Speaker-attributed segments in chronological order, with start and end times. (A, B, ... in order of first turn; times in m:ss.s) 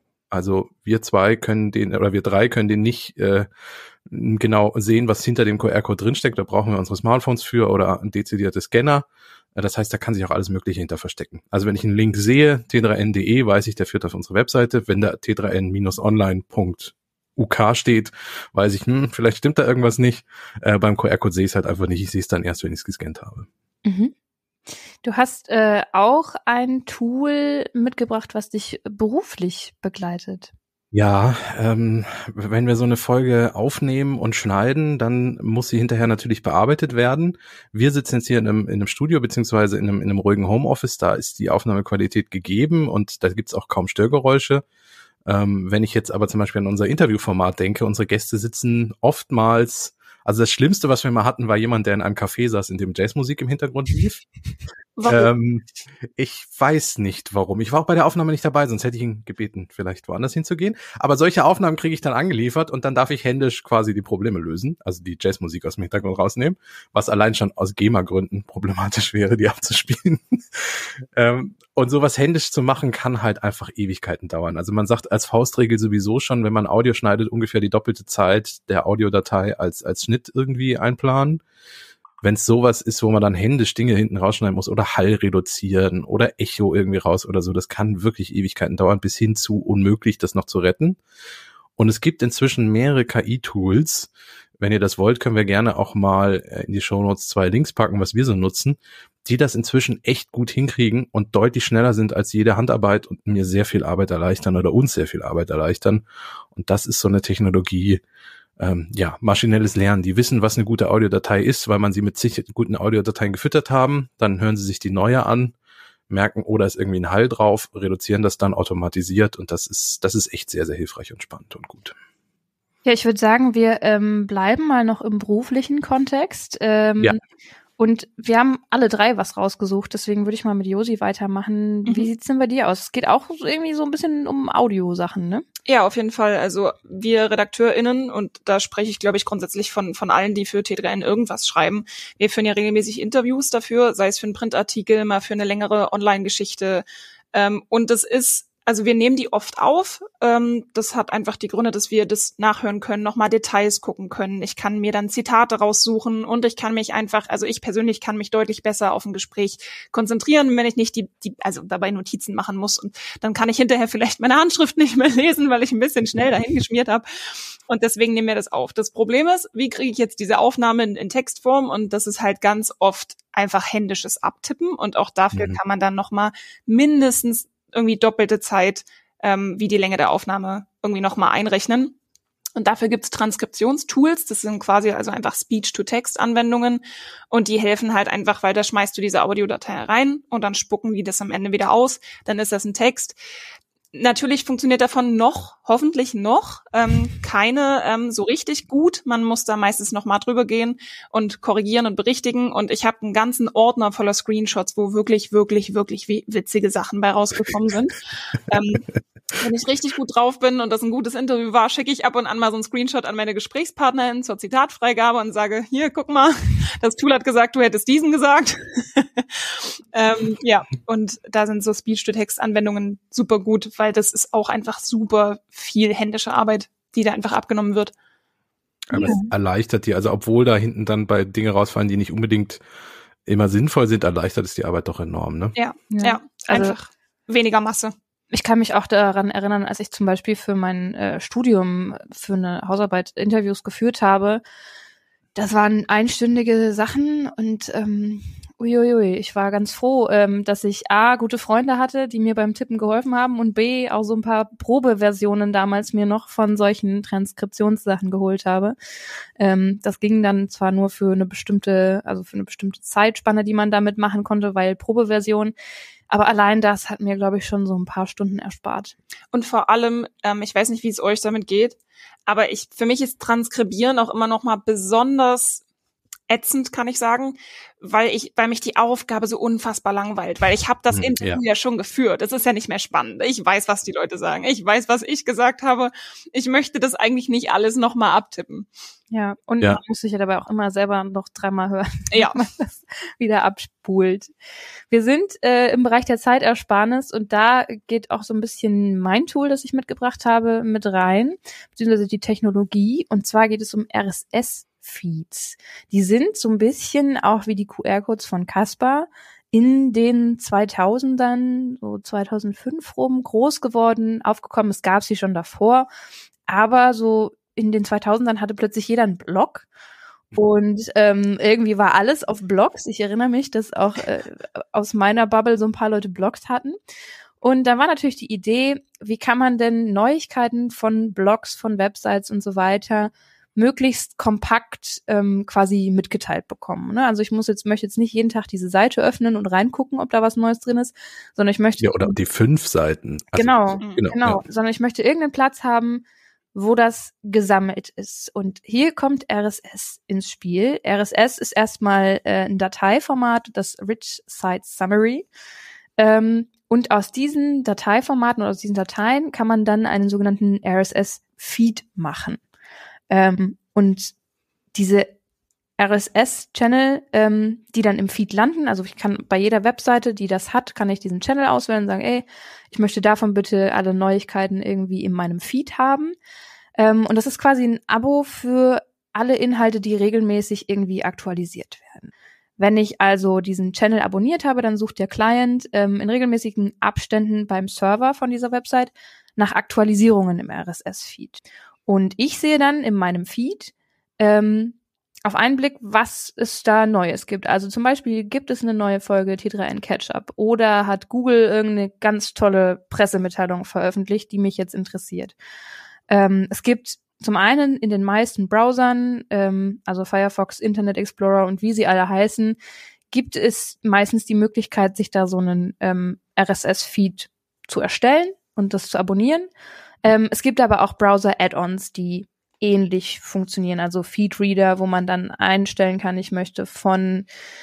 0:00.3-0:03.5 A
0:04.1-0:23.5 A
0:23.8-0:24.1 B
0:25.0-0:30.5 B
0:30.9-0:44.6 A
0:45.2-0:54.2 A
0:55.0-0:55.3 C
0:55.1-1:21.4 A
1:22.2-1:31.0 A
1:31.8-1:48.0 A
1:48.6-1:55.6 A
1:56.1-2:02.0 A
2:02.8-2:07.2 B
2:07.8-2:15.4 B
2:15.7-3:01.9 C
2:55.3-2:55.6 A
3:02.6-3:13.2 C
3:13.9-3:47.9 C
3:48.9-3:52.6 A
3:49.0-3:49.3 B
3:53.3-3:55.6 A
3:55.6-3:57.9 C
3:55.9-3:56.8 B
3:58.3-4:04.4 B
4:05.4-4:18.8 B
4:19.4-4:25.5 B
4:26.1-4:28.9 B
4:29.3-4:35.6 C
4:36.3-4:48.7 C
4:40.9-4:41.4 A
4:49.1-4:54.3 B
4:52.1-4:52.4 C
4:54.9-5:15.9 B
5:16.5-5:19.7 B
5:20.4-5:26.8 B
5:27.4-5:42.2 B
5:41.8-5:44.4 A
5:43.3-5:55.3 B
5:56.0-6:02.4 B
6:03.1-6:04.1 B
6:04.7-6:05.1 B
6:05.8-6:16.2 B
6:16.8-6:45.4 B
6:46.1-6:52.6 B
6:53.1-6:59.5 B
7:00.0-7:07.3 B